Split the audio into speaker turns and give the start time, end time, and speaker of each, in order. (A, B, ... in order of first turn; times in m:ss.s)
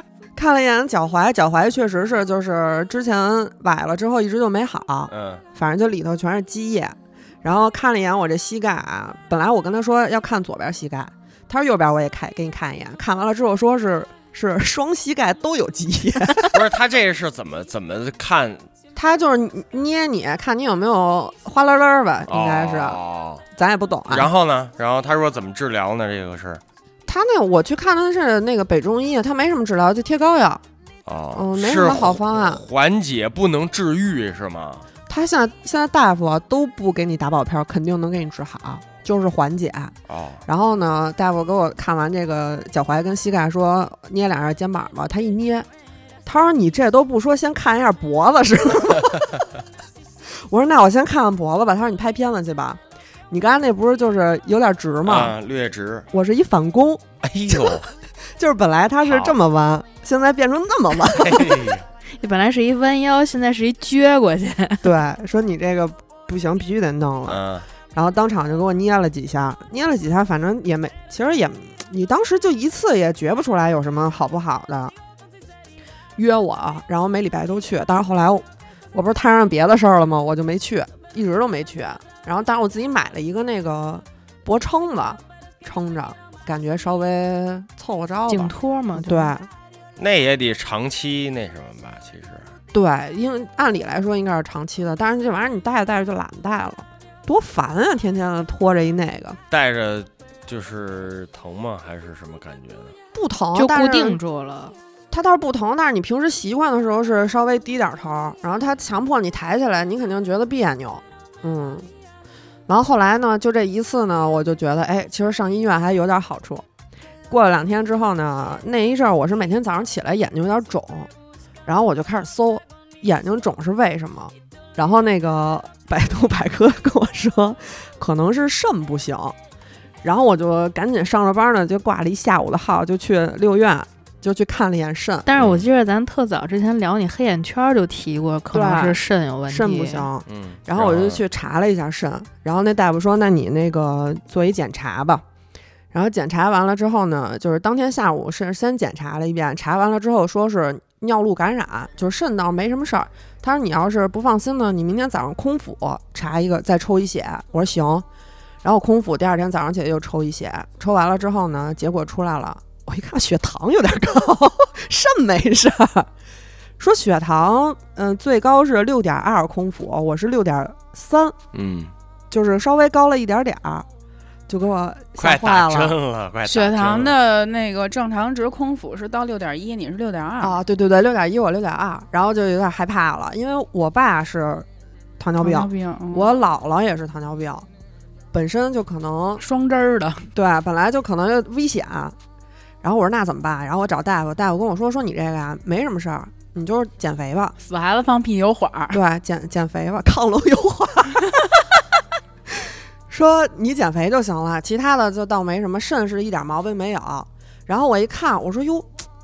0:00.4-0:16.6 A
0:05.1-0:05.4 B
0:16.5-0:18.6 B
0:19.0-0:23.0 A
0:22.3-0:23.4 B
0:23.5-0:24.3 A
0:24.1-0:26.6 B
0:27.1-0:30.6 A
0:31.0-0:34.8 B
0:31.3-0:32.6 A
0:35.1-0:39.9 A
0:40.1-0:40.4 B
0:40.5-0:45.7 A
0:46.2-0:49.4 A
0:50.3-0:55.3 A
0:55.0-0:56.0 B
0:56.1-0:57.8 A
0:57.2-0:57.8 B
0:58.4-1:01.8 A
0:59.0-0:59.3 B
1:01.1-1:01.8 B
1:02.1-1:04.8 C
1:04.8-1:07.4 A
1:07.3-1:07.7 B
1:07.9-1:14.9 A
1:16.2-1:29.5 A
1:28.3-1:29.3 C
1:30.0-1:32.4 B
1:32.7-1:39.4 A
1:39.5-1:42.9 B
1:43.1-1:44.2 A
1:43.5-1:44.7 C
1:45.1-1:51.9 A
1:52.7-1:56.6 A
1:57.3-2:01.1 A
2:01.6-2:09.4 A
2:10.0-2:15.3 A
2:15.2-2:20.1 C
2:15.4-2:15.6 B
2:18.5-2:25.2 A
2:20.3-2:21.2 B
2:25.9-2:38.0 A
2:38.6-2:46.1 A
2:46.8-2:51.4 A
2:51.5-2:51.9 B
2:52.3-2:53.8 A
2:54.5-2:56.0 A
2:55.2-2:57.2 B
2:56.4-3:00.6 D
3:00.4-3:04.7 A
3:05.2-3:07.6 A
3:05.4-3:06.3 D
3:08.3-3:09.4 A
3:09.4-3:10.3 D
3:10.3-3:12.2 A
3:12.8-3:17.5 A
3:17.6-3:19.0 D
3:18.9-3:21.4 A
3:22.5-3:29.0 A